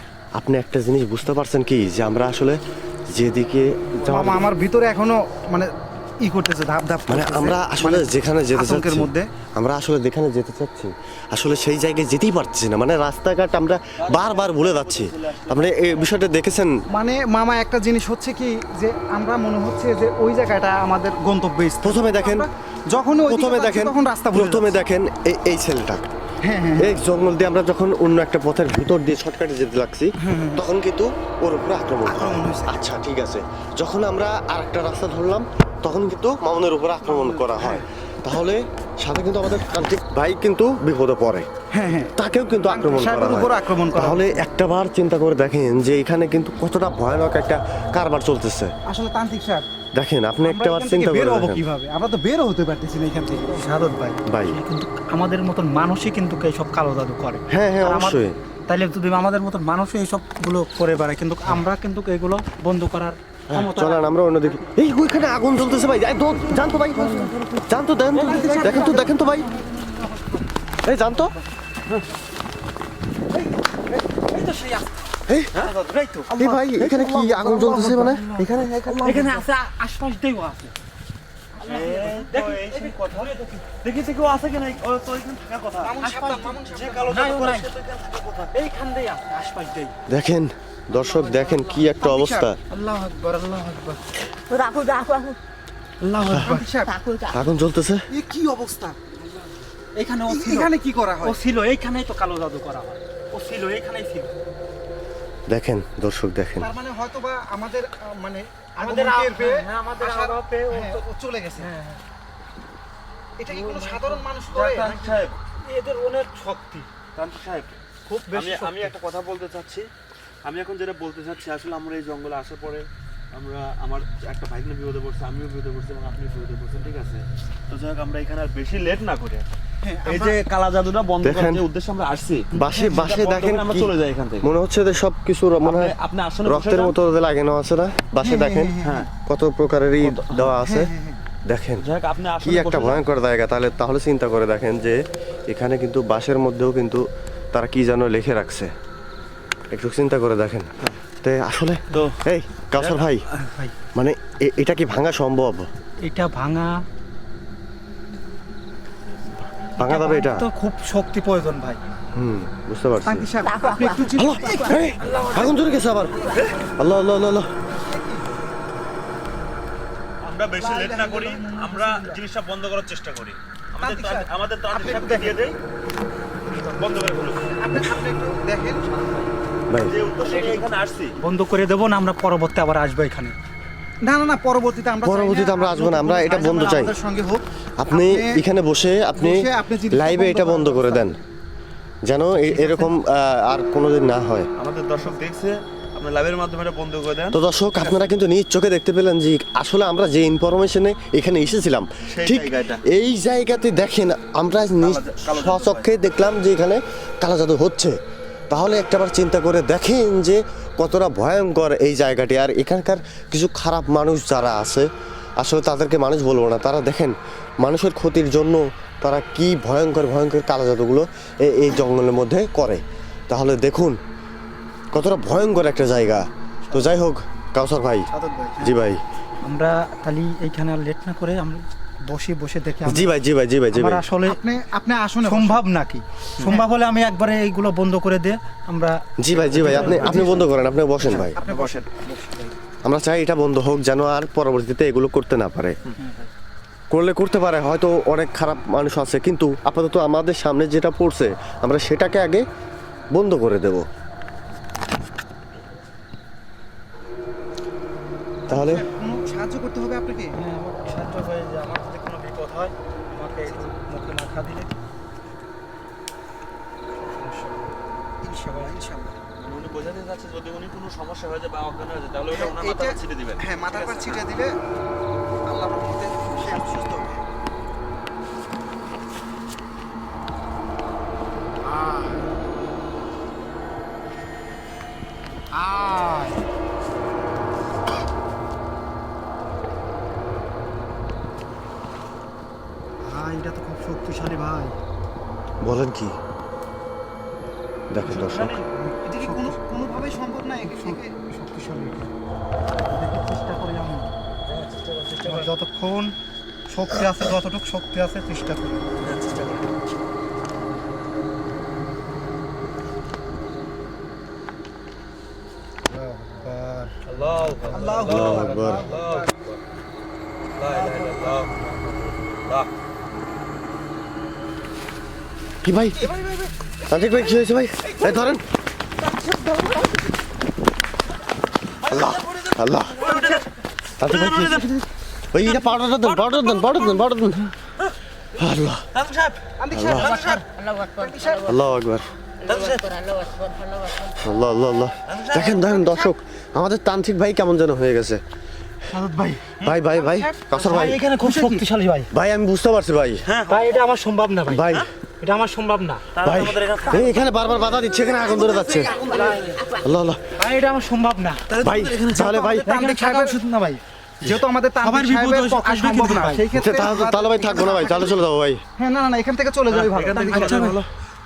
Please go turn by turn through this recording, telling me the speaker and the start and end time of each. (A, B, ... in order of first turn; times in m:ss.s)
0:00.4-0:04.5 A
0:04.0-0:09.3 B
0:07.1-0:16.8 A
0:14.0-0:16.1 C
0:16.9-0:24.8 B
0:21.8-0:22.5 A
0:23.3-0:26.1 A
0:26.4-0:27.0 B
0:26.8-0:41.5 A
0:30.2-0:30.6 B
0:32.1-0:32.8 B
0:37.0-0:37.8 B
0:41.7-0:42.1 B
0:42.2-0:48.7 A
0:42.7-0:44.4 B
0:48.9-0:49.6 B
0:50.0-0:51.6 A
0:50.4-0:53.6 B
0:53.5-1:04.6 D
0:54.3-0:54.6 A
0:57.5-0:58.4 A
1:03.5-1:09.5 A
1:07.0-1:07.3 D
1:08.1-1:10.5 D
1:08.3-1:09.1 B
1:10.8-1:11.4 A
1:14.0-1:16.4 D
1:16.3-1:18.3 A
1:16.4-1:17.8 C
1:17.4-1:20.7 D
1:18.4-1:19.4 C
1:21.6-1:23.6 D
1:21.7-1:23.3 C
1:21.8-1:22.1 B
1:23.8-1:26.0 C
1:25.8-1:27.2 B
1:26.0-1:27.7 D
1:26.7-1:28.5 C
1:28.5-1:29.9 D
1:30.1-1:32.6 A
1:31.2-1:32.5 B
1:32.7-1:34.0 D
1:34.5-1:35.4 E
1:36.0-1:36.7 D
1:36.4-1:37.0 B
1:36.8-1:37.4 E
1:37.3-1:38.1 A
1:38.1-1:39.0 B
1:39.2-1:40.7 D
1:40.3-1:41.4 B
1:41.2-1:44.3 D
1:45.5-1:46.7 A
1:46.6-1:51.7 B
1:48.8-1:51.0 D
1:51.6-1:52.0 D
1:53.4-1:55.0 B
1:53.5-1:54.2 D
1:54.5-1:55.4 C
1:55.7-1:56.9 D
1:57.2-1:57.8 C
1:58.1-1:58.9 D
1:58.3-1:59.9 C
2:00.4-2:09.5 C
2:09.8-2:10.4 B
2:10.1-2:14.5 C
2:11.2-2:11.6 A
2:12.5-2:20.9 A
2:12.6-2:13.1 B
2:15.6-2:17.0 C
2:18.2-2:19.1 B
2:18.8-2:19.1 C
2:20.0-2:20.5 C
2:20.6-2:21.2 B
2:21.5-2:21.9 A
2:21.8-2:23.0 C
2:22.4-2:25.0 A
2:25.5-2:28.7 A
2:29.7-2:33.2 A
2:31.9-2:32.2 C
2:32.8-2:33.1 C
2:34.0-2:35.7 A
2:36.0-2:36.8 D
2:39.8-2:40.5 A
2:39.8-2:41.8 D
2:42.1-2:43.3 A
2:43.0-2:45.4 B
2:43.4-2:44.8 E
2:44.0-2:46.2 A
2:45.0-2:45.4 D
2:46.3-2:46.6 C
2:46.8-2:47.5 A
2:47.7-2:48.3 B
2:50.2-2:55.6 C
2:50.6-2:52.2 B
2:53.8-2:55.4 B
2:56.6-2:57.4 C
2:57.6-2:58.8 B
2:58.8-3:01.2 C
2:59.7-3:00.0 A
3:00.2-3:00.7 B
3:01.2-3:03.4 D
3:04.0-3:08.4 B
3:05.0-3:07.0 A
3:07.8-3:11.2 A
3:09.2-3:11.2 B
3:12.0-3:14.5 A
3:14.6-3:18.1 C
3:17.3-3:28.0 A
3:22.1-3:22.8 C
3:24.8-3:25.9 C
3:28.5-3:34.9 A
3:35.4-3:44.0 A
3:44.9-3:48.1 A
3:48.2-3:48.5 D
3:48.3-3:48.6 B
3:48.6-3:49.0 A
3:49.4-3:53.2 D
3:52.8-3:54.0 A
3:53.7-3:54.4 D
3:54.2-3:55.6 B
3:55.2-4:00.5 D
3:56.4-3:56.7 B
3:59.2-4:01.4 A
3:59.4-4:00.2 C
3:59.6-4:00.5 B
4:01.0-4:02.5 B
4:01.0-4:01.3 D
4:01.5-4:01.8 C
4:02.8-4:05.8 A
4:06.0-4:06.3 D
4:06.9-4:12.5 A
4:13.1-4:13.9 A
4:18.5-4:18.8 A
4:18.5-4:20.4 B
4:20.3-4:24.7 D
4:27.0-4:27.6 D
4:28.2-4:29.2 B
4:28.5-4:28.7 D
4:29.4-4:34.2 C
4:32.3-4:34.5 B
4:35.5-4:37.2 B
4:41.7-4:42.2 D
4:45.5-4:46.4 D
4:53.0-4:54.8 D
4:55.6-4:56.2 A
4:57.9-4:58.6 A
4:58.0-4:59.6 D
4:59.0-5:01.1 B
5:00.6-5:02.1 D
5:02.9-5:04.1 D
5:04.5-5:05.5 C
5:05.2-5:06.2 D
5:06.7-5:08.9 D
5:09.0-5:09.7 C
5:15.9-5:18.1 D
5:17.1-5:19.6 C
5:17.7-5:19.3 B
5:18.1-5:18.9 A
5:20.5-5:22.7 C
5:20.8-5:21.3 B
5:25.6-5:26.1 A
5:26.0-5:27.3 B
5:26.9-5:28.4 A
5:27.8-5:28.3 B
5:29.0-5:29.7 B
5:31.8-5:33.1 A
5:31.8-5:33.5 C
5:34.0-5:34.7 A
5:34.0-5:34.9 C
5:35.3-5:37.5 A
5:35.4-5:37.0 C
5:38.4-5:38.8 A
5:38.9-5:39.4 C
5:39.6-5:41.6 B
5:39.7-5:40.1 A
5:40.0-5:40.4 C
5:40.6-5:41.6 E
5:41.4-5:42.1 A
5:42.4-5:43.0 C
5:42.4-5:44.2 E
5:44.2-5:48.2 A
5:45.1-5:46.1 C
5:48.9-5:49.6 D
5:49.6-5:51.0 A
5:49.9-5:50.5 B
5:50.6-5:52.1 D
5:51.2-5:51.6 B
5:52.1-5:53.2 A
5:53.3-5:53.8 C
5:53.5-5:54.6 D
5:54.5-5:54.9 A
5:55.2-5:56.0 D
5:56.2-5:59.6 C
5:56.2-5:59.0 A
5:58.3-5:58.8 B
5:59.0-5:59.5 D
5:59.5-5:59.8 E
5:59.8-6:00.2 A
6:00.4-6:01.4 D
6:01.5-6:02.3 C
6:01.6-6:02.7 A
6:02.2-6:08.2 B
6:02.6-6:03.4 D
6:04.8-6:06.4 D
6:06.6-6:08.6 A
6:08.8-6:10.8 B
6:09.7-6:10.9 C
6:10.3-6:10.8 D